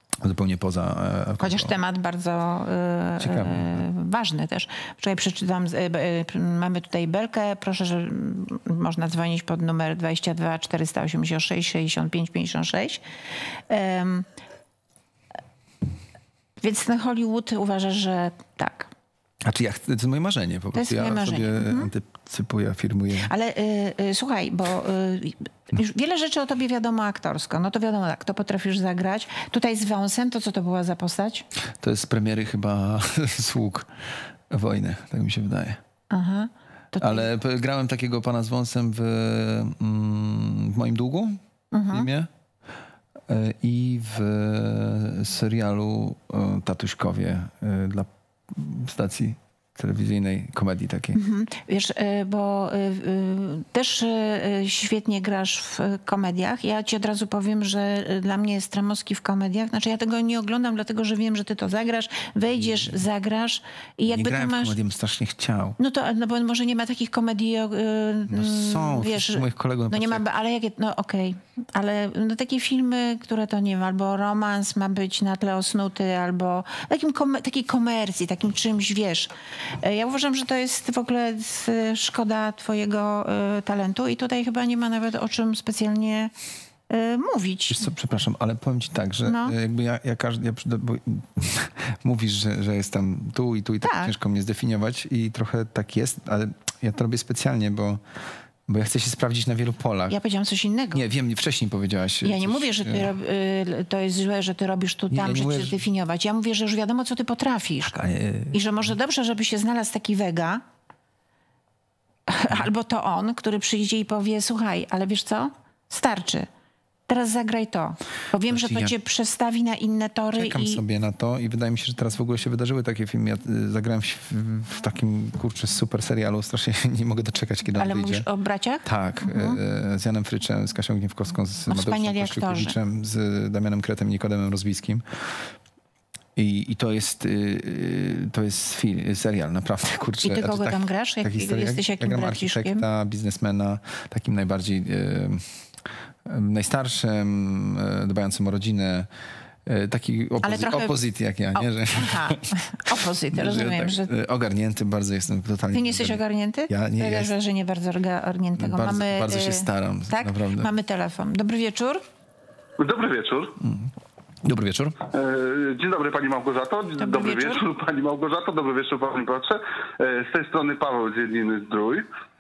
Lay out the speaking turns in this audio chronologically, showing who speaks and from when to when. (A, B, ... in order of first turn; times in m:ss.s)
0:00.2-0:01.7 A
0:01.4-0:13.0 B
0:03.2-0:03.9 A
0:13.7-0:14.3 B
0:16.6-0:18.9 B
0:19.4-0:23.3 A
0:20.7-0:21.9 B
0:23.2-0:31.4 B
0:31.8-0:35.8 A
0:36.1-0:37.3 B
0:37.0-0:41.4 A
0:41.7-0:42.1 B
0:41.9-0:42.3 A
0:43.3-0:51.2 A
0:51.1-1:04.7 B
1:04.1-1:05.8 A
1:05.8-1:26.3 B
1:08.3-1:10.2 A
1:26.9-1:27.8 B
1:27.7-1:38.0 A
1:29.2-1:29.6 B
1:33.8-1:34.1 B
1:38.7-1:40.2 A
1:40.1-1:41.0 B
1:40.9-1:43.1 A
1:42.2-1:50.6 B
1:45.1-1:45.8 A
1:47.8-1:48.6 A
1:52.3-1:56.5 B
1:57.1-2:00.8 B
1:58.5-1:58.9 A
2:00.4-2:08.2 A
2:07.8-2:09.6 B
2:08.8-2:15.5 A
2:11.7-2:12.8 B
2:16.4-2:25.6 A
2:20.2-2:22.8 B
2:26.2-2:29.1 A
2:29.6-2:32.6 A
2:30.4-2:31.0 B
2:31.5-2:34.1 B
2:33.3-2:37.3 A
2:35.7-2:42.0 B
2:38.6-2:40.7 A
2:42.8-2:43.6 C
2:43.6-2:43.9 A
2:44.4-2:45.0 A
2:45.1-2:52.0 C
2:47.0-2:47.6 B